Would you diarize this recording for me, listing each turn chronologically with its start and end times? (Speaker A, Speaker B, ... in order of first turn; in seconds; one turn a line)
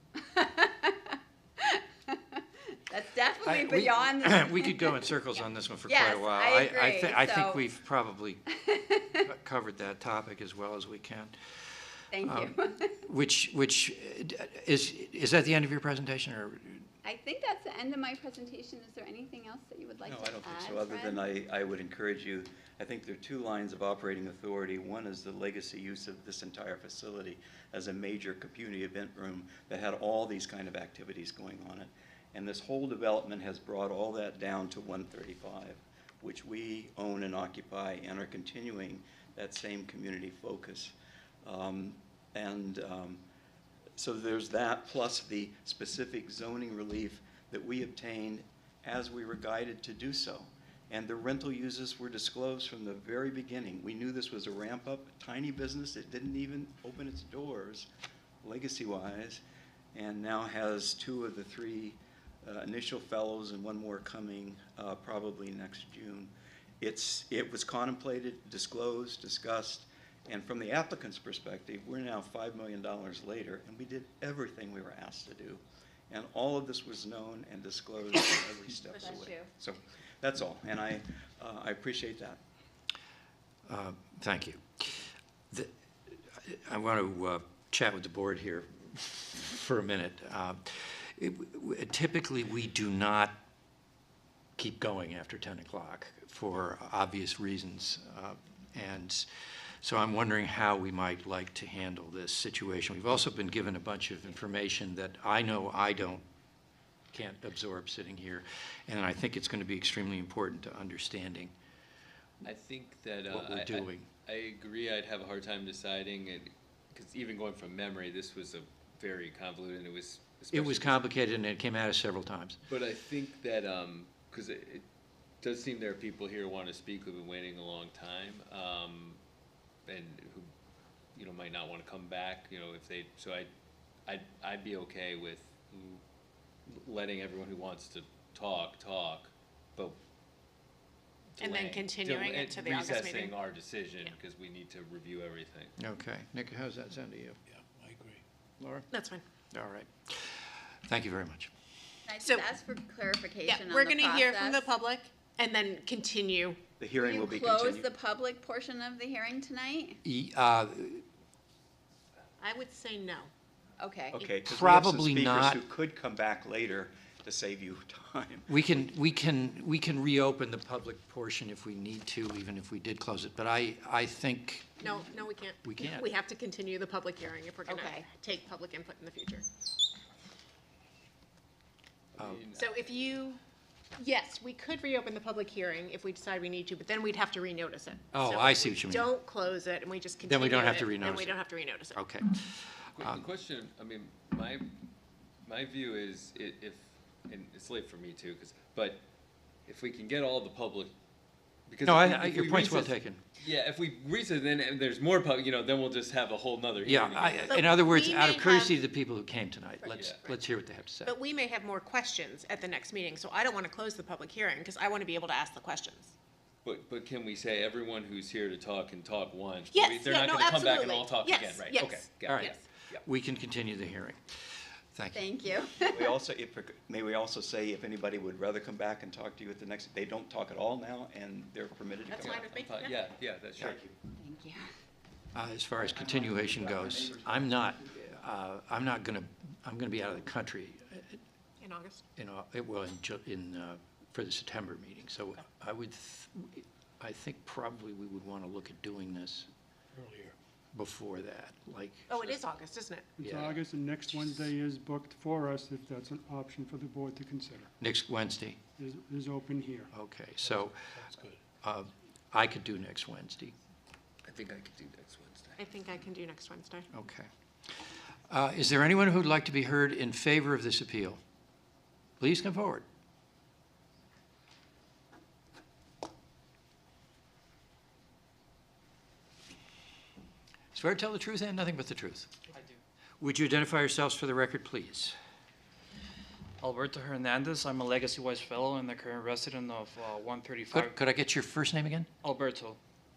Speaker A: 0.2-5.2
Speaker B: 3.5-8.4
Speaker A: 5.9-7.6
Speaker A: 8.5-9.2
Speaker B: 9.2-16.9
Speaker A: 12.1-13.0
Speaker A: 17.0-21.2
Speaker C: 20.0-40.9
Speaker C: 41.4-43.2
Speaker C: 44.0-57.9
Speaker C: 58.4-59.4
Speaker C: 59.9-82.4
Speaker A: 78.9-79.5
Speaker B: 83.7-85.0
Speaker B: 85.5-93.3
Speaker B: 94.6-99.3
Speaker B: 99.8-106.2
Speaker B: 107.1-111.5
Speaker D: 112.4-121.1
Speaker B: 113.3-114.1
Speaker B: 120.5-122.6
Speaker D: 122.7-124.8
Speaker D: 125.4-129.2
Speaker D: 129.9-130.5
Speaker D: 131.2-133.5
Speaker D: 134.1-136.0
Speaker D: 136.7-140.0
Speaker D: 141.4-145.7
Speaker E: 141.4-143.4
Speaker B: 145.8-147.4
Speaker F: 147.5-148.2
Speaker B: 148.6-148.9
Speaker E: 148.9-149.2
Speaker B: 149.5-151.5
Speaker A: 152.1-154.7
Speaker E: 152.2-152.6
Speaker E: 153.4-156.7
Speaker C: 156.8-157.9
Speaker A: 157.0-160.0
Speaker B: 160.0-161.0
Speaker E: 162.4-163.3
Speaker A: 163.8-164.2
Speaker C: 164.1-168.5
Speaker B: 164.5-165.6
Speaker B: 168.5-174.9
Speaker E: 174.8-179.4
Speaker B: 175.6-176.1
Speaker A: 177.7-178.1
Speaker D: 182.2-183.2
Speaker B: 182.2-182.4
Speaker E: 182.5-183.4
Speaker E: 184.0-192.0
Speaker B: 188.1-189.1
Speaker B: 190.2-191.4
Speaker B: 191.9-193.2
Speaker D: 192.9-194.7
Speaker D: 195.4-199.0
Speaker D: 199.7-200.9
Speaker D: 201.7-207.6
Speaker B: 201.8-203.2
Speaker B: 206.8-211.2
Speaker E: 207.5-208.8
Speaker D: 209.9-210.2
Speaker E: 211.1-216.1
Speaker D: 216.6-223.0
Speaker E: 219.7-222.6
Speaker B: 222.3-225.5
Speaker A: 225.1-226.1
Speaker C: 225.8-232.5
Speaker E: 232.1-232.9
Speaker D: 232.2-233.8
Speaker C: 233.6-233.9
Speaker A: 234.2-234.7
Speaker B: 235.3-241.2
Speaker C: 235.8-237.7
Speaker E: 241.6-242.0
Speaker B: 242.2-249.5
Speaker F: 249.9-250.3
Speaker B: 250.7-252.4
Speaker E: 252.1-253.1
Speaker G: 253.2-257.7
Speaker B: 253.2-253.6
Speaker B: 257.8-258.6
Speaker G: 258.8-259.9
Speaker B: 259.9-260.9
Speaker F: 260.4-261.4
Speaker B: 261.6-263.5
Speaker D: 264.3-265.8
Speaker E: 265.6-266.9
Speaker B: 266.9-271.2
Speaker B: 272.2-272.9
Speaker B: 280.7-282.3
Speaker B: 283.2-285.1
Speaker H: 286.6-291.0
Speaker B: 290.7-292.1
Speaker H: 292.2-292.8